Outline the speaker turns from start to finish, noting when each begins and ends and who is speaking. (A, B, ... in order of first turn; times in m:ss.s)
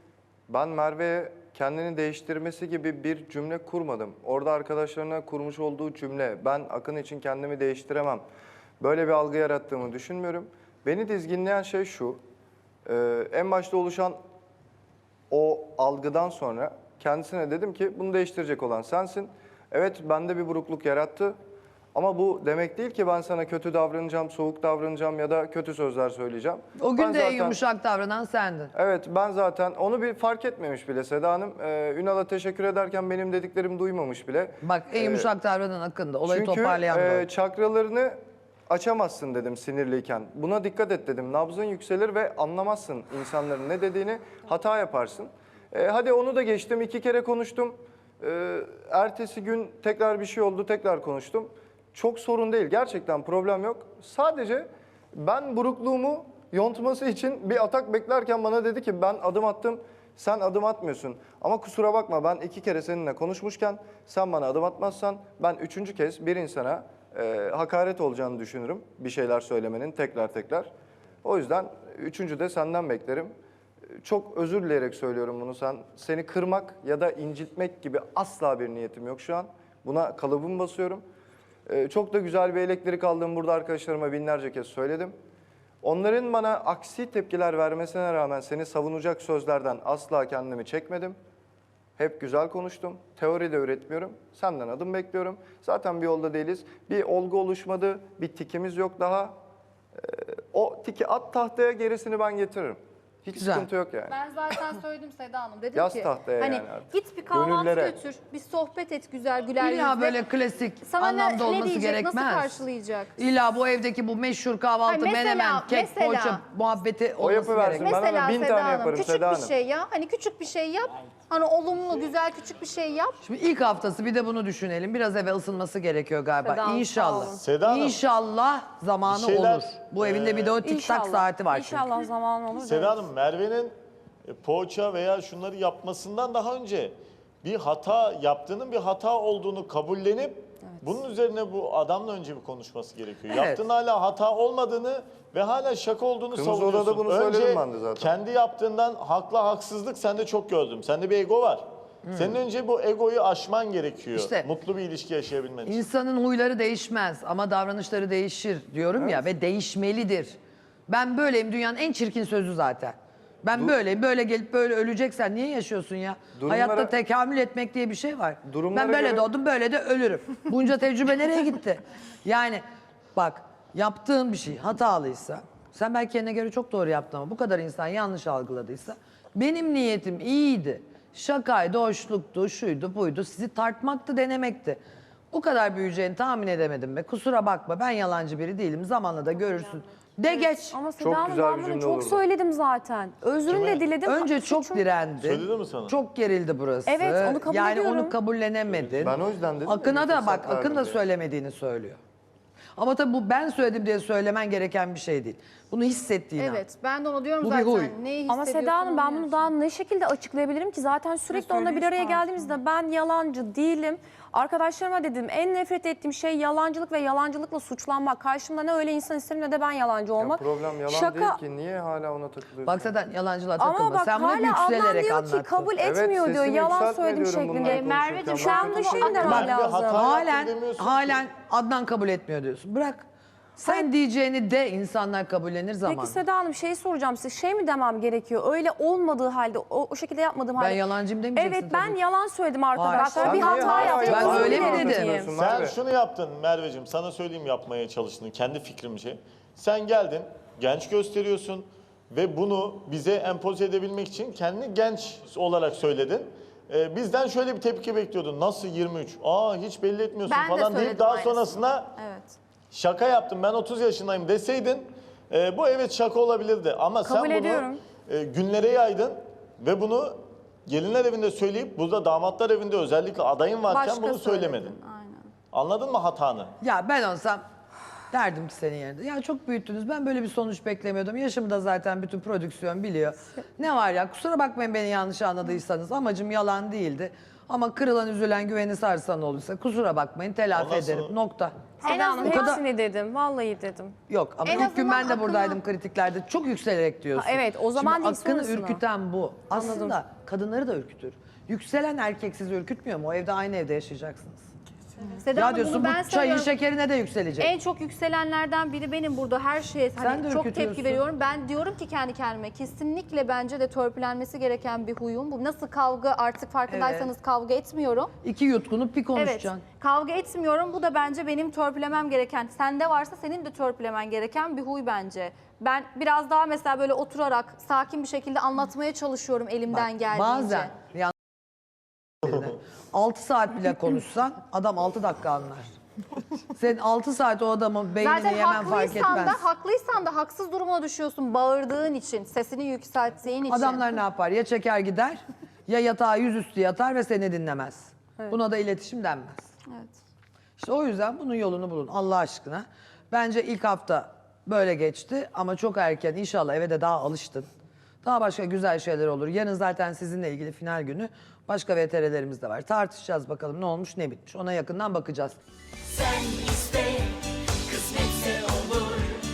0:00.5-0:08.2 A
0:08.8-0:12.2 A
0:12.8-0:14.2 A
0:15.3-0:21.4 A
0:21.9-0:27.6 A
0:26.8-0:28.7 B
0:28.7-0:35.3 A
0:34.6-0:37.3 B
0:36.2-0:38.2 A
0:38.7-1:10.7 A
1:11.2-1:13.3 A
1:14.0-1:21.0 A
1:21.7-1:25.2 A
1:25.8-1:31.2 A
1:32.0-1:39.4 A
1:40.0-1:44.2 A
1:43.3-1:43.7 B
1:44.1-1:50.2 C
1:45.7-1:48.0 A
1:49.6-1:52.5 B
1:50.8-1:53.2 C
1:53.2-1:58.0 B
1:54.9-1:56.4 C
1:57.2-1:59.5 A
1:57.8-2:03.2 C
2:03.2-2:11.9 B
2:06.4-2:07.4 D
2:07.4-2:08.0 E
2:09.0-2:10.6 E
2:10.6-2:13.0 D
2:12.6-2:13.7 E
2:14.2-2:35.8 E
2:23.3-2:23.6 B
2:26.3-2:28.1 A
2:32.1-2:32.4 B
2:34.1-2:34.5 B
2:35.6-2:40.4 B
2:38.9-2:39.2 A
2:40.9-2:52.6 B
2:46.4-2:46.9 A
2:48.4-2:49.2 A
2:53.1-3:04.8 B
3:05.3-3:10.8 B
3:10.2-3:14.8 D
3:11.0-3:12.2 A
3:13.4-3:13.9 E
3:14.0-3:22.0 B
3:15.2-3:16.0 E
3:16.9-3:18.1 D
3:19.0-3:21.0 A
3:22.8-3:26.6 B
3:26.4-3:29.5 C
3:27.4-3:27.9 B
3:28.3-3:41.4 D
3:31.3-3:32.2 C
3:40.2-3:42.9 A
3:42.6-3:45.7 B
3:43.6-3:50.0 D
3:45.8-3:49.5 A
3:47.7-3:49.3 C
3:49.2-3:56.2 B
3:49.3-3:51.2 E
3:53.6-3:53.9 D
3:55.8-4:05.3 D
4:00.6-4:02.0 B
4:02.7-4:05.2 B
4:02.9-4:04.0 C
4:03.2-4:05.8 A
4:05.4-4:21.9 E
4:20.3-4:22.4 C
4:22.7-4:34.7 E
4:27.0-4:27.8 D
4:33.7-4:34.5 D
4:34.7-4:35.3 C
4:35.5-4:36.5 E
4:36.6-4:37.4 B
4:38.1-4:51.5 B
4:50.5-4:51.2 E
4:51.8-4:52.6 C
4:51.8-4:53.9 D
4:52.2-4:52.6 B
4:54.1-5:04.4 B
4:54.4-4:55.6 C
4:57.2-4:58.8 D
4:59.5-5:00.0 D
5:05.2-5:06.5 C
5:05.3-5:07.5 B
5:07.4-5:18.1 C
5:10.0-5:11.0 B
5:16.7-5:17.1 B
5:18.2-5:19.6 B
5:19.1-5:30.7 C
5:29.7-5:31.1 B
5:32.2-5:35.7 B
5:36.5-5:39.4 B
5:38.0-5:43.9 C
5:43.5-5:49.5 B
5:49.7-5:50.0 C
5:50.6-5:57.5 B
5:58.0-6:05.4 B